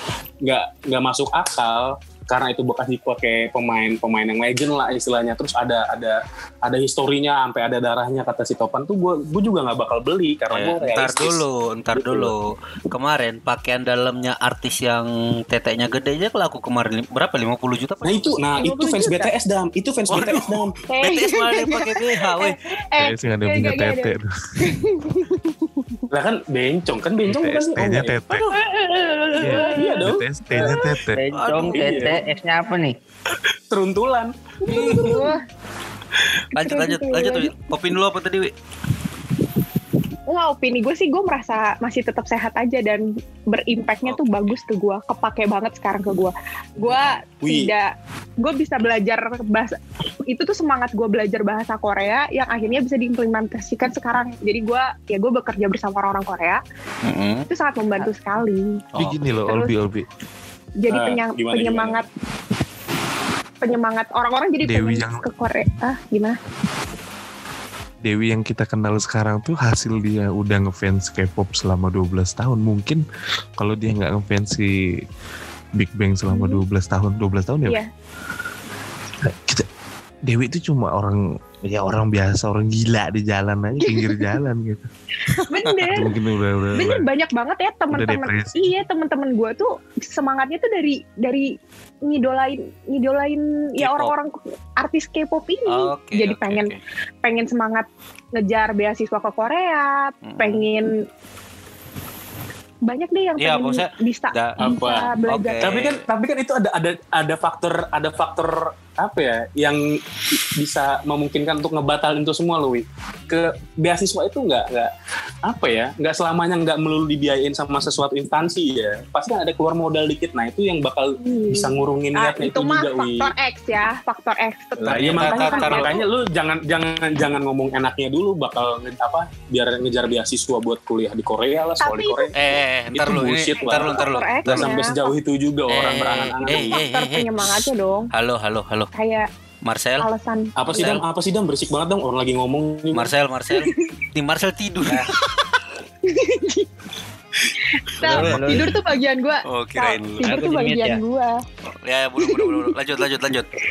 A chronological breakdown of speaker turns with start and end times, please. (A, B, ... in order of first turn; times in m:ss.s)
0:00.4-0:12.3 A
0:10.5-0:18.4 B
0:18.0-0:20.7 A
0:18.6-0:19.3 C
0:20.1-0:22.6 B
0:20.9-0:26.0 C
0:23.0-0:24.8 D
0:26.1-0:28.2 A
0:27.2-0:28.5 D
0:29.4-0:30.0 C
0:29.4-0:31.2 D
0:29.4-0:29.9 E
0:29.6-0:30.8 A
0:31.1-0:32.9 E
0:31.3-0:32.1 B
0:31.7-0:32.2 A
0:33.7-0:35.3 A
0:34.6-0:35.4 C
0:34.6-0:35.3 B
0:36.5-0:38.5 B
0:36.6-0:37.5 C
0:40.3-0:49.7 C
0:44.0-0:44.6 B
0:47.4-0:47.7 A
0:50.3-0:56.6 C
0:57.0-0:57.5 B
0:57.5-0:58.8 C
0:58.9-0:59.5 B
0:59.0-1:00.0 D
0:59.4-0:59.8 C
1:00.8-1:02.0 C
1:00.9-1:02.0 A
1:03.6-1:06.4 C
1:04.6-1:05.2 D
1:08.0-1:13.0 D
1:13.6-1:14.7 D
1:15.8-1:17.8 D
1:16.3-1:16.6 C
1:19.2-1:19.6 D
1:20.3-1:24.8 D
1:23.8-1:24.4 C
1:25.3-1:25.9 B
1:25.4-1:26.1 C
1:25.9-1:27.1 D
1:26.7-1:31.5 C
1:27.9-1:28.7 D
1:32.0-1:36.7 C
1:33.8-1:34.1 B
1:35.7-1:36.8 B
1:37.2-1:40.9 C
1:40.2-1:40.6 B
1:42.8-1:45.8 C
1:43.4-1:44.7 B
1:44.6-1:49.8 A
1:45.2-1:46.0 B
1:50.3-1:54.9 A
1:55.5-2:03.3 A
2:01.2-2:06.0 C
2:04.8-2:12.3 A
2:04.9-2:06.0 B
2:11.8-2:12.3 C
2:12.3-2:14.8 B
2:12.9-2:16.8 A
2:13.6-2:15.1 C
2:15.7-2:18.9 B
2:16.5-2:18.1 C
2:18.9-2:19.3 C
2:19.6-2:20.1 B
2:20.0-2:21.0 C
2:20.6-2:23.1 A
2:20.7-2:21.0 B
2:22.9-2:25.0 B
2:23.5-2:23.9 C
2:26.0-2:26.7 C
2:27.7-2:31.4 C
2:28.0-2:28.7 E
2:28.1-2:28.5 B
2:29.4-2:30.4 B
2:30.2-2:31.0 E
2:31.8-2:33.5 B
2:32.2-2:32.6 C